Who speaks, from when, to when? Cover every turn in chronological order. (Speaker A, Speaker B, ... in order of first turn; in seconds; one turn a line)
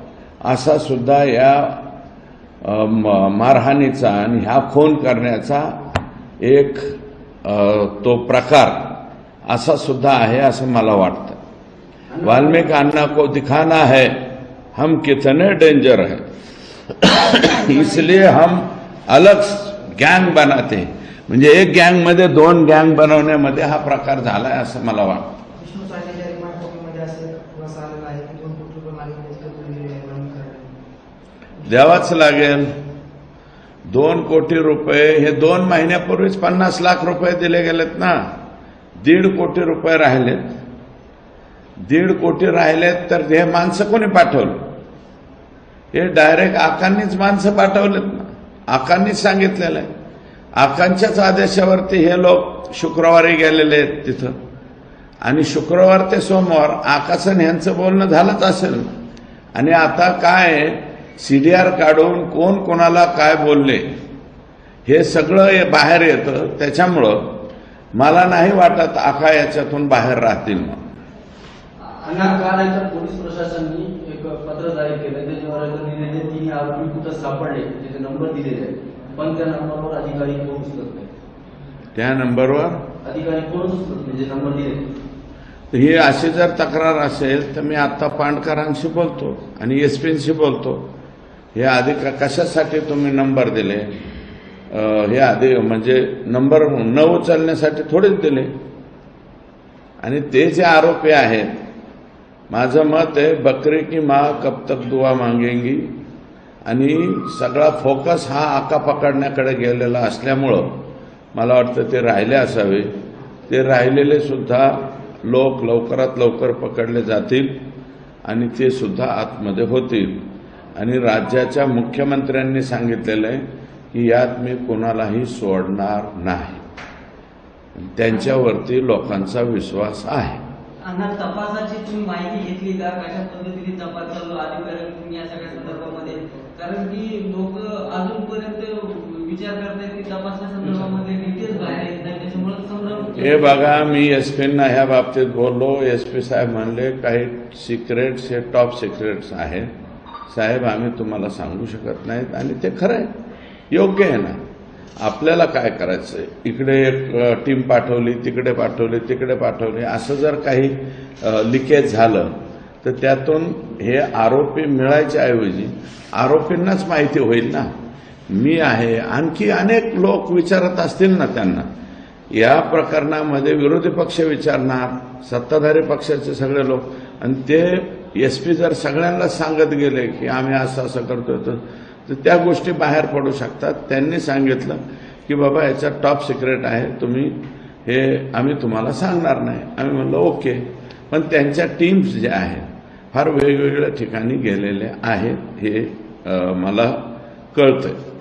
Speaker A: 0.4-1.8
Speaker A: 2.6-5.8
Speaker A: 6.4-6.9
Speaker A: 7.4-8.9
Speaker A: 9.5-11.4
Speaker A: 12.2-14.2
Speaker A: 14.8-16.3
Speaker A: 17.0-25.3
Speaker B: 25.6-30.7
Speaker A: 31.7-32.7
Speaker A: 33.9-38.2
Speaker A: 39.0-40.6
Speaker A: 41.9-44.6
Speaker A: 45.9-49.9
Speaker A: 50.6-54.4
Speaker A: 55.2-58.9
Speaker A: 59.5-63.9
Speaker A: 64.9-70.8
Speaker C: 72.0-72.3
Speaker D: 72.1-81.1
Speaker A: 82.0-82.8
Speaker D: 83.1-84.8
Speaker A: 85.7-90.8
Speaker A: 91.5-94.0
Speaker A: 94.7-98.5
Speaker A: 100.0-101.5
Speaker A: 102.5-105.9
Speaker A: 106.7-112.9
Speaker A: 113.5-117.7
Speaker A: 118.2-126.6
Speaker A: 127.8-130.4
Speaker C: 130.8-143.7
Speaker A: 143.2-149.7
Speaker A: 150.3-153.1
Speaker A: 153.7-154.4
Speaker A: 155.0-167.7
Speaker A: 168.3-171.7
Speaker A: 172.3-198.0